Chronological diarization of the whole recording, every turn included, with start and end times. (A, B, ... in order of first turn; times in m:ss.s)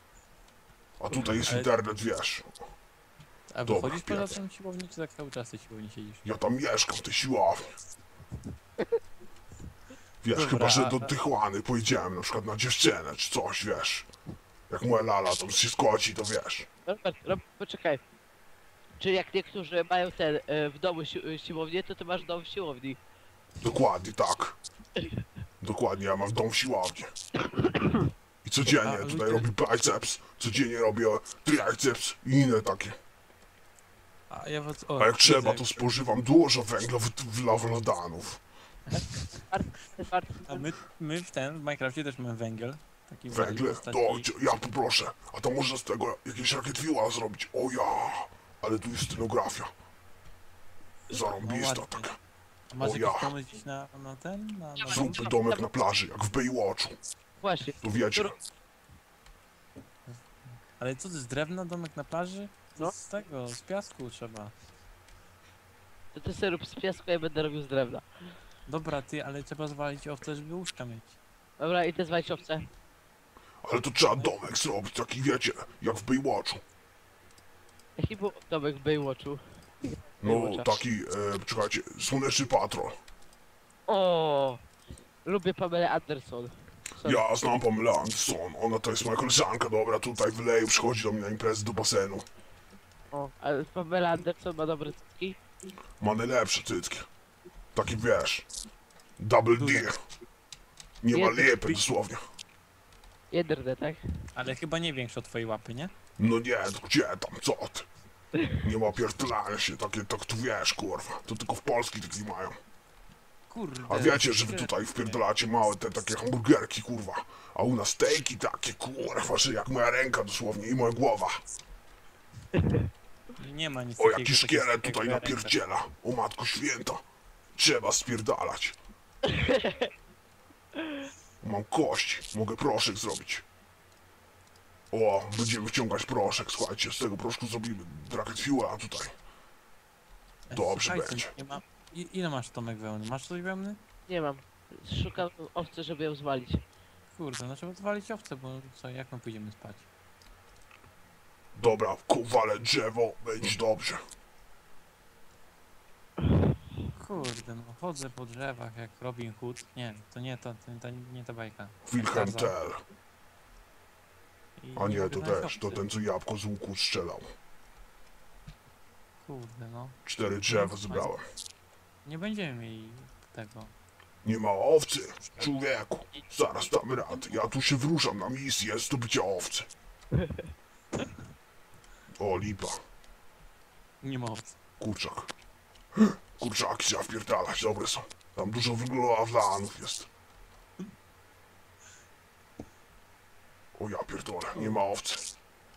0:01.0-0:02.5 A
0:01.5-0:01.7 B
0:03.5-0:06.2 B
0:03.7-0:04.4 A
0:06.2-0:07.8 A
0:10.2-0:14.1 A
0:10.3-0:11.2 B
0:14.7-0:16.7 A
0:16.9-0:18.0 C
0:19.0-0:23.0 C
0:23.6-0:24.6 A
0:25.6-0:27.1 A
0:28.4-0:33.0 A
0:28.8-0:29.5 B
0:34.3-0:35.6 B
0:35.0-0:38.4 A
0:39.5-0:40.7 C
0:40.5-0:44.3 B
0:43.3-0:49.7 A
0:51.1-0:52.1 B
0:51.1-0:52.2 A
0:52.7-0:55.3 B
0:52.8-0:53.3 A
0:54.8-0:55.6 C
0:54.9-0:57.0 A
0:57.4-0:58.3 C
0:57.8-0:58.3 A
1:00.1-1:04.5 B
1:06.1-1:08.0 C
1:08.7-1:11.2 B
1:11.6-1:12.7 C
1:13.6-1:16.6 A
1:14.1-1:14.4 B
1:18.0-1:20.8 C
1:20.2-1:23.0 A
1:23.9-1:24.6 C
1:25.2-1:27.2 C
1:27.0-1:32.3 A
1:33.1-1:35.4 C
1:36.0-1:37.1 A
1:37.7-1:38.5 A
1:39.2-1:40.0 A
1:39.6-1:39.9 B
1:41.0-1:42.2 A
1:41.1-1:41.5 C
1:43.3-1:44.0 C
1:44.3-1:45.9 B
1:46.2-1:47.9 A
1:48.6-1:52.6 A
1:53.5-1:55.2 B
1:53.9-2:01.4 A
2:03.4-2:05.6 B
2:04.0-2:07.0 A
2:07.6-2:08.8 A
2:09.3-2:09.9 C
2:11.4-2:13.4 A
2:14.9-2:19.2 A
2:20.5-2:23.8 B
2:20.5-2:21.3 A
2:24.1-2:26.6 C
2:27.1-2:29.9 B
2:31.6-2:34.0 A
2:37.0-2:42.5 B
2:41.8-2:42.8 A
2:44.6-2:45.9 B
2:44.8-2:47.4 A
2:49.2-2:51.1 B
2:50.0-2:51.2 A
2:52.0-2:53.7 B
2:54.2-2:59.7 A
3:02.2-3:02.8 A
3:04.0-3:04.6 B
3:04.8-3:05.3 A
3:06.0-3:10.1 A
3:13.8-3:15.2 A